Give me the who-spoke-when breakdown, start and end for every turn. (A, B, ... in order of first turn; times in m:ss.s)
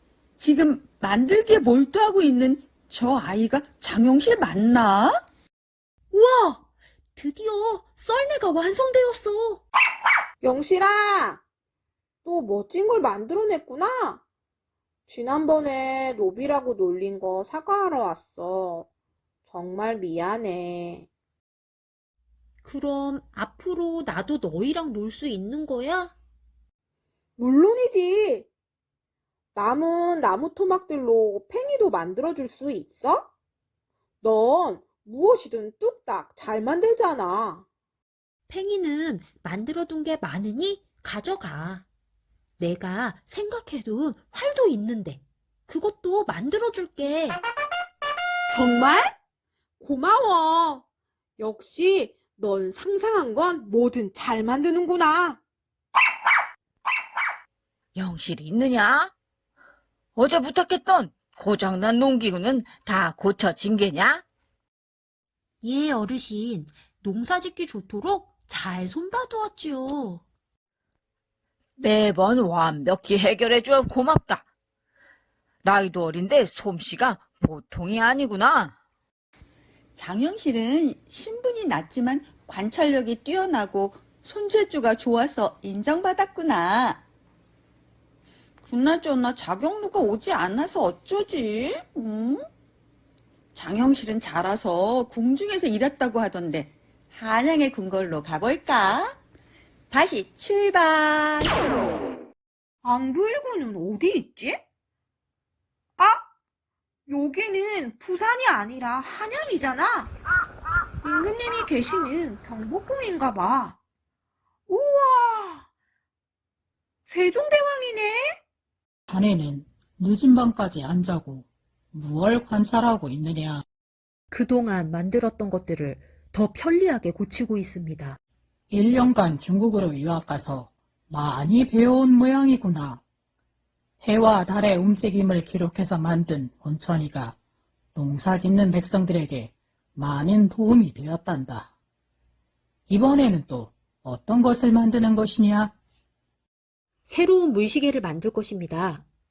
0:00.4-0:05.2 A
0:06.1-0:06.6 B
0:07.2-0:09.6 B
0:10.4-0:11.4 C
0:12.2-0:14.2 C
0:15.1-0:18.9 C
0:19.5-0:21.1 C
0:22.6-0:26.1 B
0:27.4-0:28.5 C
0:29.6-0:33.3 C
0:34.2-0:37.6 C
0:38.5-0:41.9 B
0:42.6-0:47.4 B
0:48.5-0:49.2 C
0:49.8-0:50.8 C
0:51.4-0:55.4 C
0:58.0-0:59.1 D
1:00.2-1:04.2 D
1:05.6-1:10.2 B
1:11.8-1:14.5 D
1:15.6-1:18.8 D
1:20.0-1:27.0 A
1:28.6-1:32.5 A
1:33.6-1:39.2 A
1:39.9-1:41.5 A
1:42.8-1:44.6 C
1:46.0-1:46.2 C
1:47.1-1:50.1 C
1:51.0-1:53.8 C
1:54.7-1:55.7 C
1:57.1-1:58.4 C
1:59.1-2:03.6 E
2:04.3-2:08.2 B
2:08.7-2:13.0 E
2:14.0-2:17.4 E
2:18.0-2:21.7 E
2:22.9-2:25.7 E
2:27.1-2:29.0 B